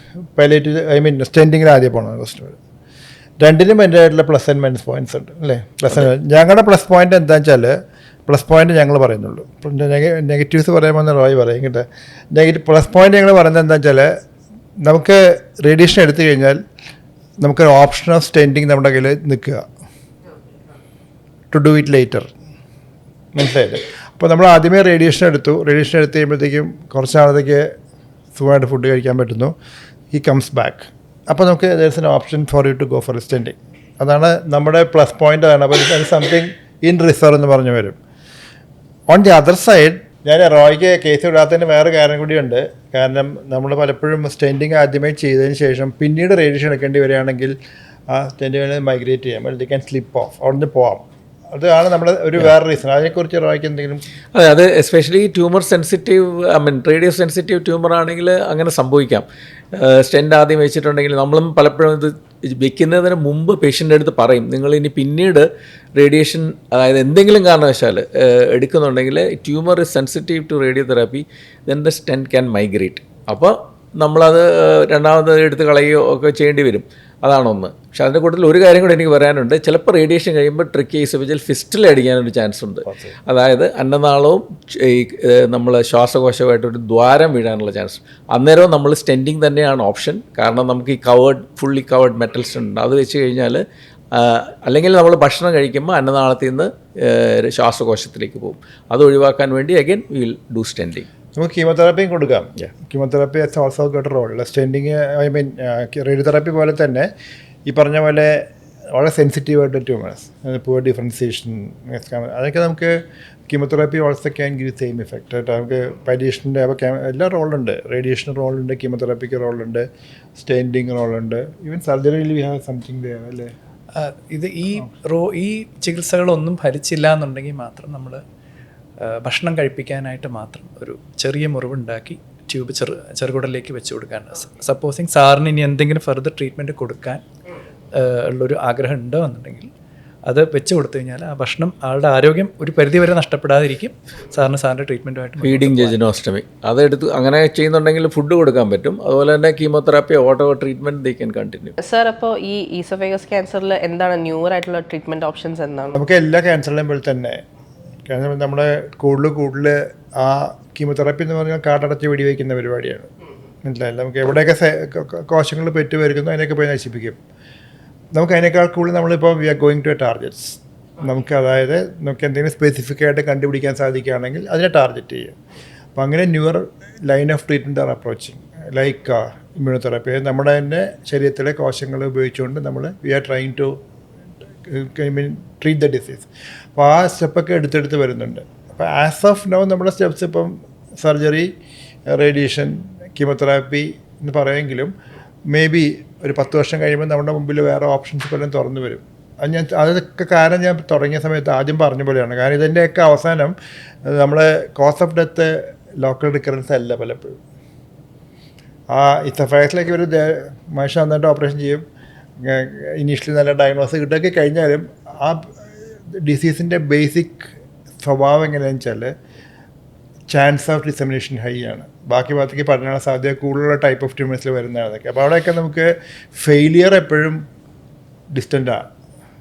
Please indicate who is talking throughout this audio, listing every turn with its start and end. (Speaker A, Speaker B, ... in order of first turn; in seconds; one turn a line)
Speaker A: 0.3-2.5
Speaker A: 3.4-7.7
Speaker A: 8.3-14.1
Speaker A: 14.8-16.6
Speaker A: 17.4-19.6
Speaker A: 21.5-22.3
Speaker A: 23.3-27.6
Speaker A: 28.3-29.5
Speaker A: 30.1-38.0
Speaker A: 39.1-47.5
Speaker A: 48.1-54.0
Speaker B: 54.4-59.2
Speaker B: 59.8-93.6
Speaker A: 82.8-83.1
Speaker B: 94.1-101.0
Speaker A: 101.3-107.1
Speaker A: 107.7-108.4
Speaker A: 108.9-112.9
Speaker A: 113.5-119.8
Speaker A: 120.4-123.5
Speaker C: 123.9-128.2
Speaker C: 129.0-137.2
Speaker C: 137.9-139.7
Speaker C: 140.2-146.0
Speaker B: 145.4-151.7
Speaker D: 151.8-156.0
Speaker A: 155.9-157.4
Speaker A: 158.1-163.1
Speaker A: 163.6-167.2
Speaker A: 168.2-175.3
Speaker A: 175.9-183.7
Speaker A: 184.7-191.5
Speaker A: 192.1-194.9
Speaker A: 195.5-203.5
Speaker A: 204.1-207.4
Speaker A: 208.9-211.8
Speaker A: 212.4-215.5
Speaker A: 216.1-217.5
Speaker A: 218.0-219.1
Speaker A: 220.3-227.4
Speaker A: 228.3-228.9